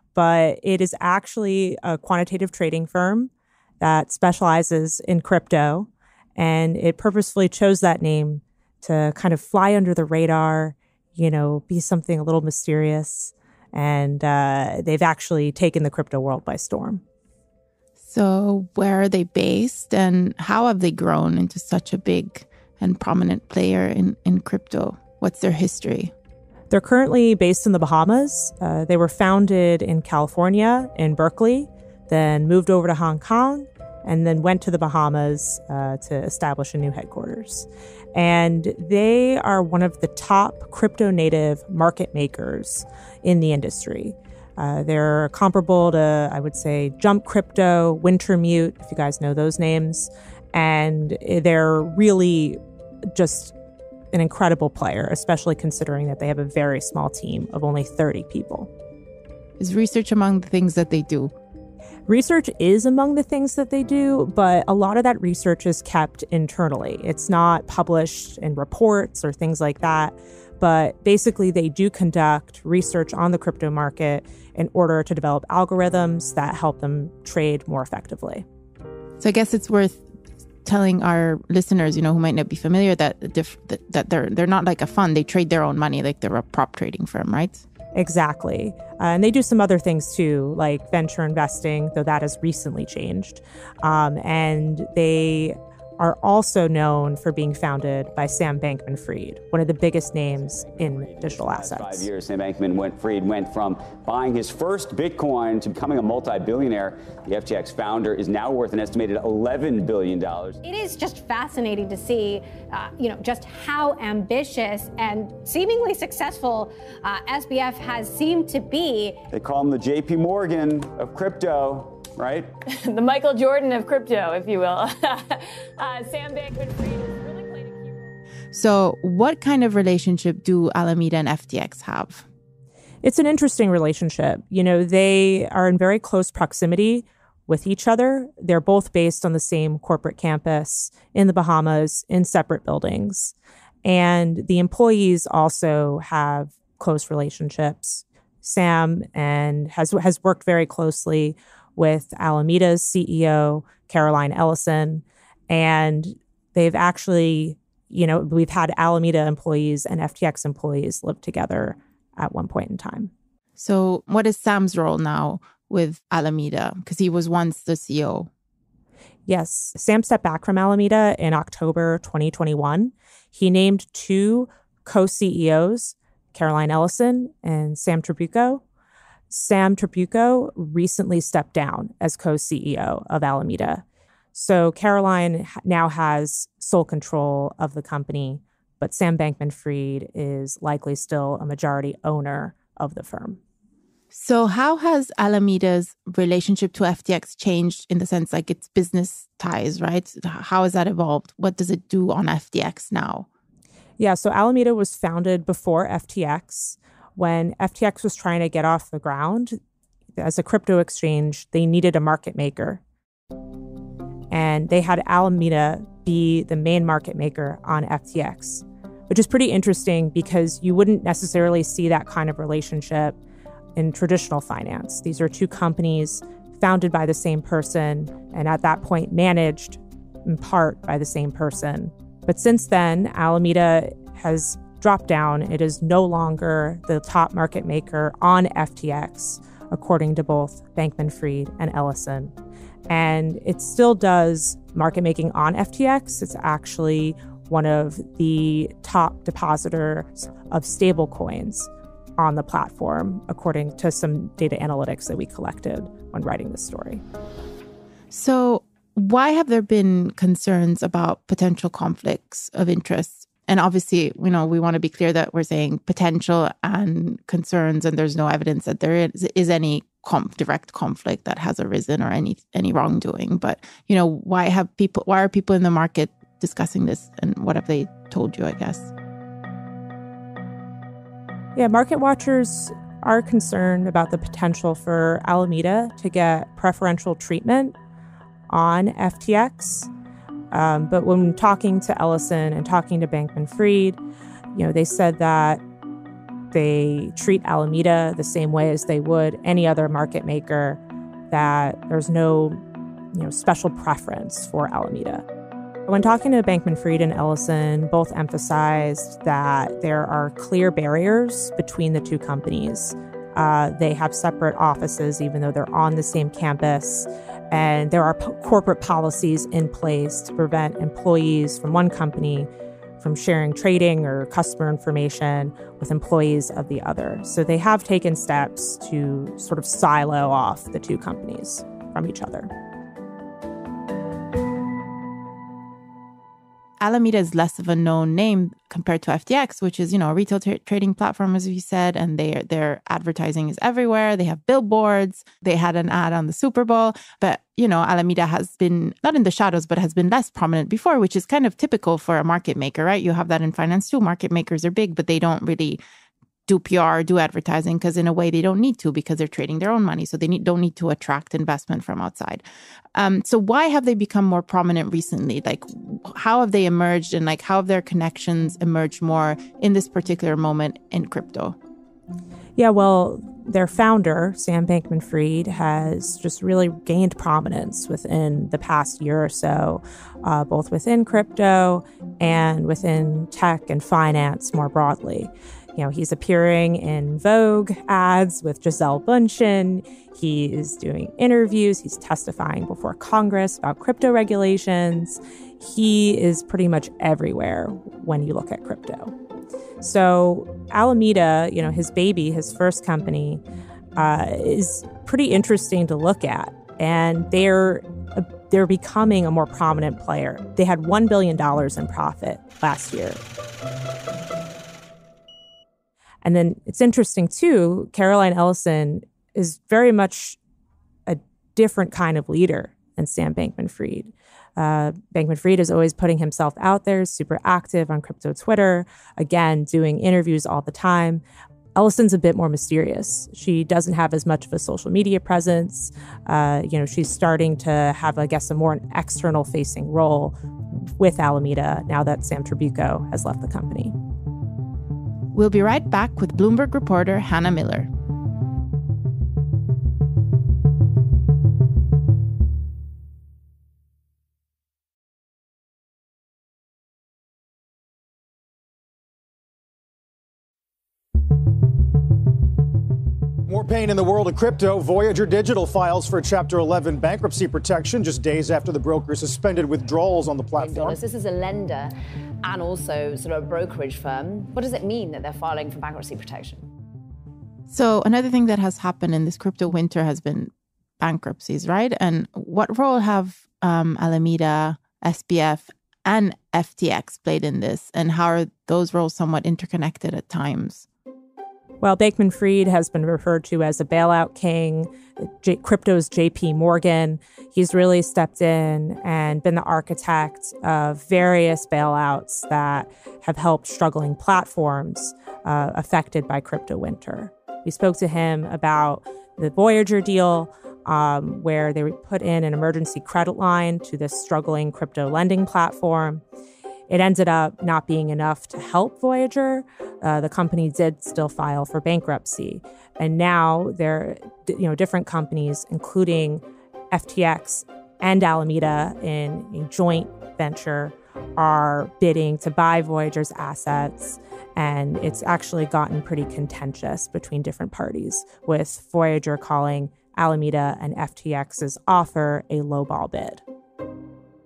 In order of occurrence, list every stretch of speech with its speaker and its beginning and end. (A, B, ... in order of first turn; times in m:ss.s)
0:00.1-0:17.0 A
0:18.0-0:26.1 B
0:26.7-0:52.6 A
0:53.1-0:53.5 A
0:54.1-0:58.7 A
0:59.6-1:01.3 B
1:02.1-1:18.4 A
1:19.2-1:20.0 B
1:20.7-1:27.7 B
1:28.0-1:42.1 A
1:40.5-1:50.6 C
1:50.6-1:59.2 D
1:59.4-2:02.5 C
2:02.6-2:08.1 E
2:08.5-2:12.3 B
2:13.0-2:43.1 A
2:43.6-2:48.3 B
2:49.3-2:58.6 A
2:59.3-3:13.4 A
3:14.1-3:23.3 B
3:24.0-3:29.6 A
3:30.2-3:32.8 A
3:34.3-3:43.2 A
3:43.8-4:02.3 A
4:02.9-4:17.0 A
4:18.1-4:38.9 B
4:41.6-4:47.8 A
4:48.5-4:49.9 A
4:50.5-4:54.0 A
4:54.5-4:55.6 A
4:56.5-5:02.6 A
5:03.1-5:05.2 A
5:05.9-5:32.5 A
5:36.8-5:55.8 B
5:56.5-6:02.4 B
6:03.0-6:11.6 B
6:12.6-6:39.1 A
6:39.8-6:43.4 A
6:44.0-6:53.2 A
6:56.2-7:00.4 A
7:01.1-7:11.2 A
7:11.8-7:23.9 A
7:25.3-7:27.9 B
7:43.5-7:51.0 F
7:50.6-7:56.7 G
7:57.7-8:10.9 B
8:11.8-8:36.2 A
8:36.9-9:03.4 A